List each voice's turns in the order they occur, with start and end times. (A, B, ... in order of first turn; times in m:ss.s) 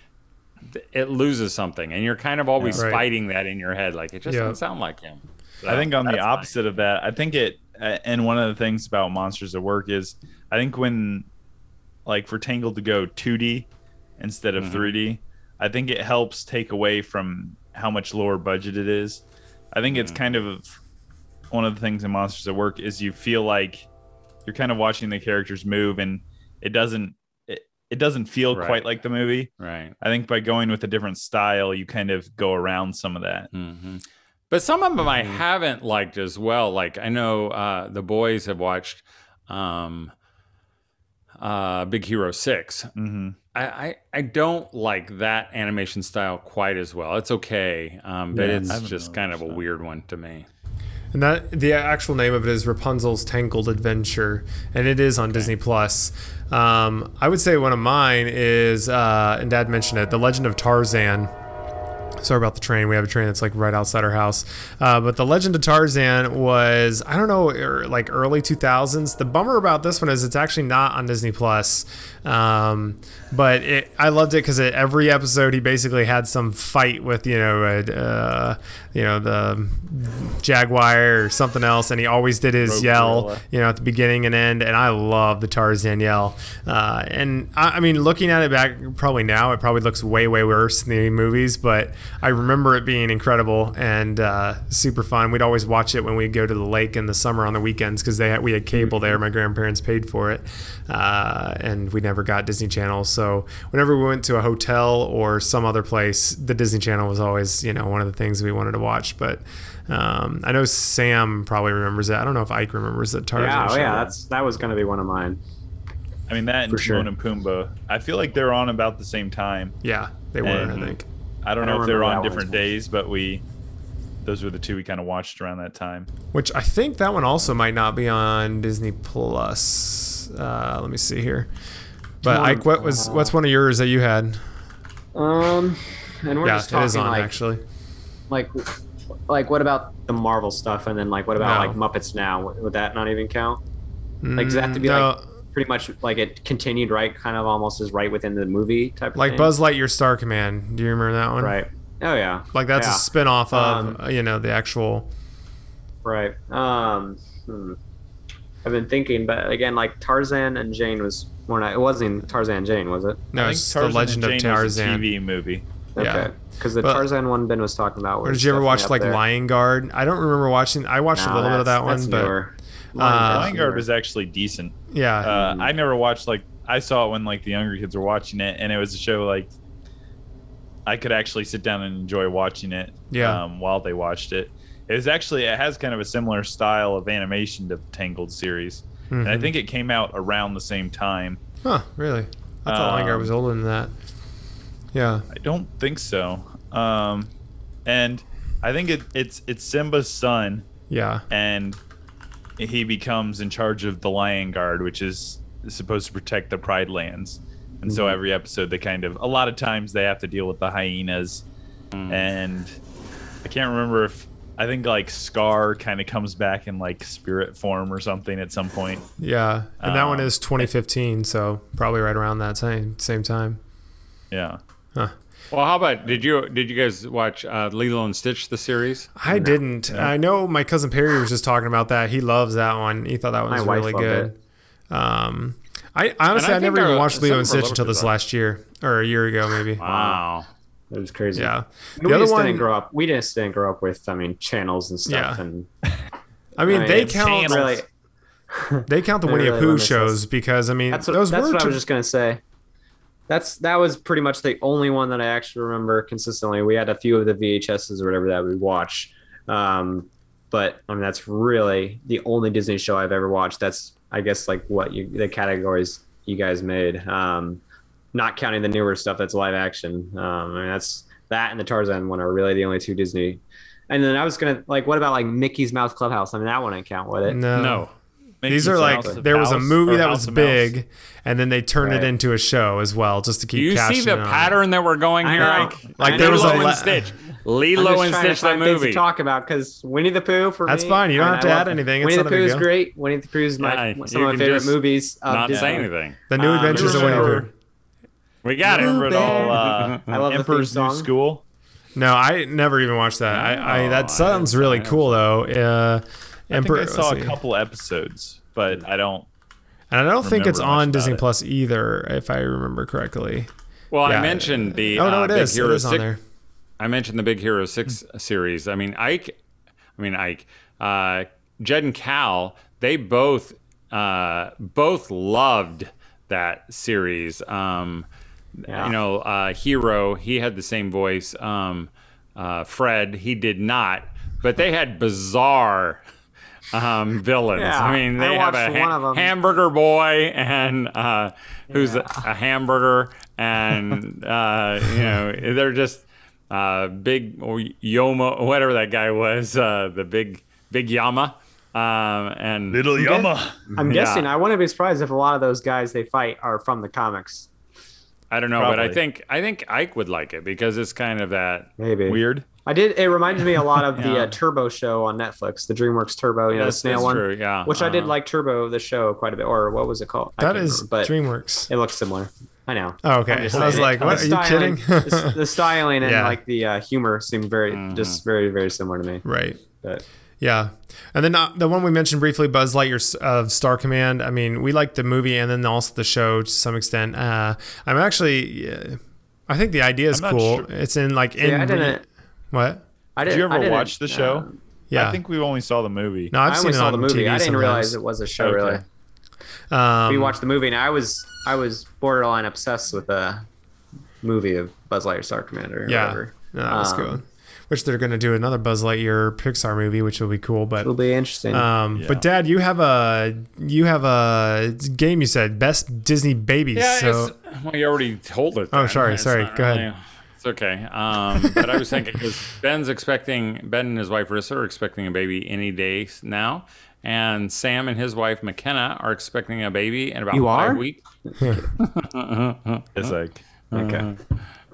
0:00.7-0:06.5 A
0:02.6-0:02.9 B
0:02.8-0:03.1 C
0:04.3-0:04.6 C
0:05.7-0:11.3 B
0:12.1-0:13.7 B
0:14.2-0:20.7 B
0:14.6-0:14.9 A
0:19.9-0:20.2 A
0:21.5-0:23.8 B
0:24.5-0:33.5 B
0:28.5-0:28.8 A
0:29.6-0:30.0 A
0:33.5-0:40.1 A
0:41.4-0:42.9 A
0:43.0-0:43.4 B
0:43.5-0:50.5 A
0:48.3-0:48.8 D
0:48.6-0:49.6 B
0:51.1-1:01.3 C
1:02.2-1:54.2 C
1:22.6-1:23.4 B
1:38.7-1:39.1 D
1:53.4-1:55.4 D
1:56.3-1:59.8 B
1:56.7-1:57.1 D
1:59.8-2:01.0 C
2:00.4-2:03.4 B
2:01.6-2:02.7 D
2:04.2-2:06.1 B
2:06.3-2:11.5 C
2:12.2-2:14.5 C
2:12.2-2:13.4 D
2:15.2-2:17.3 D
2:16.4-2:17.6 C
2:18.3-2:18.8 D
2:19.3-2:23.6 D
2:21.4-2:21.8 C
2:24.2-2:25.3 C
2:24.4-2:29.5 D
2:29.2-2:31.6 C
2:31.4-2:34.0 D
2:32.5-2:35.1 C
2:36.0-2:37.8 D
2:38.6-2:43.3 D
2:43.3-2:45.1 C
2:43.4-2:45.7 B
2:46.0-2:49.2 D
2:46.0-2:47.0 C
2:48.2-2:52.3 C
2:51.1-2:53.8 D
2:53.0-2:53.5 C
2:53.2-2:59.5 B
2:54.9-2:55.3 C
2:55.2-2:55.7 D
3:00.9-3:11.4 B
3:03.1-3:03.4 C
3:09.1-3:09.5 C
3:11.6-3:13.9 C
3:12.7-3:13.3 B
3:14.9-3:15.2 C
3:15.3-3:17.3 B
3:17.9-3:20.6 B
3:20.9-3:21.2 C
3:21.3-3:21.8 B
3:22.6-3:31.4 B
3:27.9-3:28.2 D
3:31.9-3:32.2 A
3:32.1-3:32.8 B
3:33.4-3:39.1 B
3:39.2-3:43.6 C
3:39.8-3:40.6 B
3:44.3-3:44.6 B
3:45.5-3:49.1 A
3:49.2-3:54.4 C
3:49.3-3:49.6 D
3:53.5-3:54.3 D
3:54.9-4:00.2 C
3:56.3-3:58.1 A
3:59.8-4:00.5 A
4:00.9-4:05.7 D
4:01.4-4:02.7 C
4:05.1-4:05.4 C
4:06.6-4:07.8 C
4:06.6-4:07.9 D
4:06.7-4:07.8 B
4:08.5-4:10.2 D
4:08.9-4:11.8 C
4:10.9-4:12.4 D
4:13.3-4:27.6 D
4:28.1-4:37.4 D
4:37.2-4:37.9 C
4:37.5-4:37.9 A
4:38.4-4:40.7 B
4:38.5-4:44.6 C
4:38.9-4:39.2 D
4:41.8-4:42.1 D
4:43.5-4:49.0 A
4:45.2-4:46.9 D
4:46.0-4:47.0 C
4:47.8-4:57.4 D
4:50.7-4:52.7 C
4:53.6-4:56.2 A
4:55.5-4:55.8 B
4:56.3-4:57.5 C
4:56.4-4:57.5 B
4:58.4-5:00.1 A
4:58.6-5:01.4 B
4:58.7-5:01.1 D
5:02.0-5:07.4 C
5:03.3-5:05.2 A
5:06.5-5:09.3 B
5:09.9-5:13.5 C
5:10.2-5:11.2 B
5:13.9-5:16.1 A
5:14.0-5:16.2 C
5:16.8-5:19.4 A
5:20.0-5:28.1 A
5:28.6-5:36.0 A
5:28.7-5:29.0 D
5:36.7-5:52.8 A
5:37.6-5:39.3 D
5:41.7-5:42.2 D
5:52.7-5:53.7 B
5:53.0-5:57.5 D
5:53.8-5:54.3 A
5:58.3-6:01.7 A
5:58.6-5:59.0 B
6:01.8-6:11.2 D
6:02.1-6:02.5 B
6:04.0-6:04.4 A
6:06.5-6:08.2 A
6:10.4-6:11.7 C
6:11.7-6:20.0 D
6:13.0-6:15.4 C
6:16.0-6:16.4 C
6:17.7-6:18.2 A
6:19.2-6:19.6 C
6:20.4-6:32.8 C
6:30.1-6:30.7 B
6:31.4-6:32.0 D
6:33.2-6:34.5 D
6:33.3-6:36.3 B
6:34.9-6:35.2 C
6:36.3-6:38.0 C
6:36.4-6:38.8 D
6:38.4-6:38.8 B
6:39.7-6:40.4 C
6:40.1-6:43.5 D
6:44.2-6:47.2 D
6:45.9-6:50.9 C
6:50.8-6:51.7 D
6:51.5-6:57.3 C
6:51.9-6:52.2 B
6:56.8-7:11.0 A
6:58.7-6:59.9 C
7:01.5-7:01.8 C
7:10.3-7:11.7 D
7:11.4-7:11.7 C
7:11.8-7:13.1 A
7:13.0-7:13.4 B
7:13.7-7:14.4 A
7:13.7-7:14.1 D